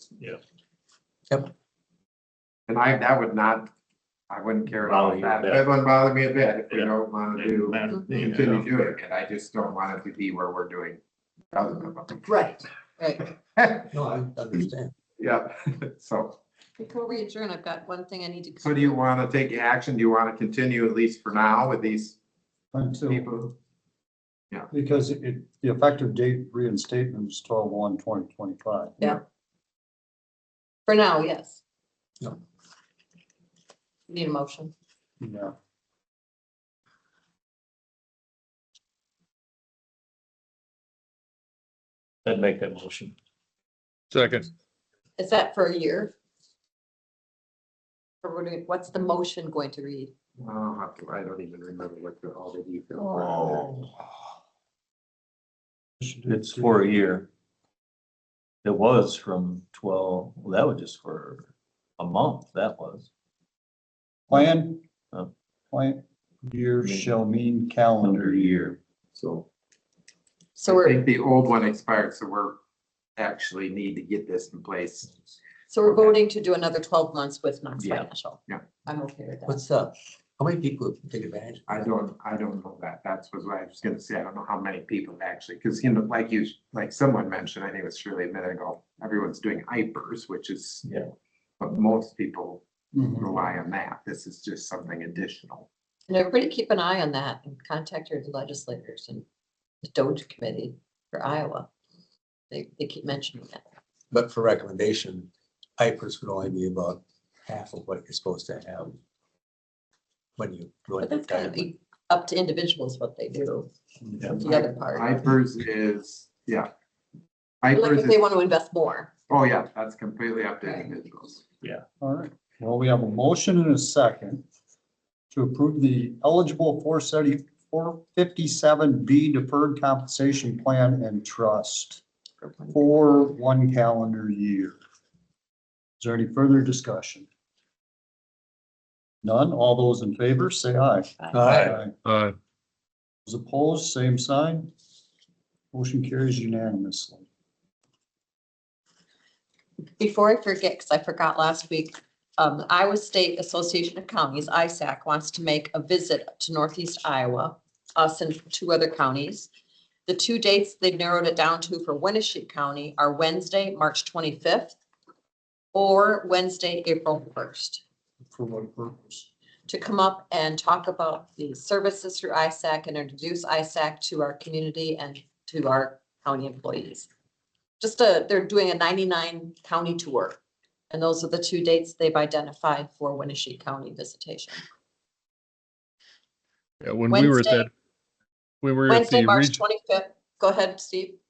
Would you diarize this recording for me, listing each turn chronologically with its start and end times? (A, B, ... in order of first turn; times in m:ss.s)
0:02.7-0:03.7 A
0:04.3-0:11.0 A
0:04.8-0:05.7 B
0:06.7-0:09.0 B
0:11.5-0:12.2 A
0:12.2-0:13.2 C
0:13.9-0:14.9 D
0:15.2-0:16.4 A
0:16.8-0:19.0 C
0:18.6-0:22.2 A
0:22.7-0:23.3 E
0:23.1-0:23.5 A
0:24.7-0:29.1 E
0:30.8-0:31.6 C
0:34.1-0:34.7 C
0:35.2-0:35.5 E
0:42.2-0:43.1 B
0:44.1-0:44.5 F
0:45.2-0:46.1 C
0:48.2-0:50.1 C
0:50.4-0:53.8 A
0:53.2-0:53.8 E
0:56.0-0:56.9 E
0:56.3-0:57.3 B
0:58.6-1:03.1 B
1:04.3-1:04.8 E
1:05.7-1:08.8 E
1:06.8-1:07.1 B
1:08.0-1:09.4 B
1:10.6-1:11.0 C
1:10.6-1:12.6 A
1:13.2-1:15.1 A
1:15.7-1:19.6 C
1:17.8-1:18.6 A
1:19.4-1:21.8 D
1:21.7-1:30.8 A
1:30.8-1:31.1 B
1:31.6-1:32.6 A
1:32.9-1:33.3 E
1:33.2-1:35.7 A
1:36.1-1:39.2 C
1:39.8-1:41.7 C
1:42.5-1:43.6 C
1:44.1-1:49.0 D
1:50.4-1:51.7 D
1:51.0-1:53.7 C
1:54.2-1:56.7 A
1:54.4-1:55.1 C
1:57.6-1:58.2 A
1:57.7-1:59.1 C
1:59.3-2:01.4 A
2:02.0-2:04.4 E
2:05.3-2:12.0 E
2:12.4-2:12.8 C
2:12.7-2:14.8 E
2:16.0-2:17.3 E
2:19.2-2:21.9 E
2:21.3-2:21.8 D
2:21.5-2:21.8 B
2:22.0-2:22.3 F
2:23.2-2:24.7 E
2:25.7-2:27.2 E
2:30.0-2:39.5 C
2:40.0-2:44.8 C
2:45.7-2:47.8 C
2:48.3-2:49.3 E
2:49.7-2:57.1 C
2:57.8-3:00.4 C
3:00.9-3:04.6 C
3:06.8-3:07.7 F
3:07.1-3:07.7 C
3:08.6-3:09.6 F
3:08.9-3:11.2 C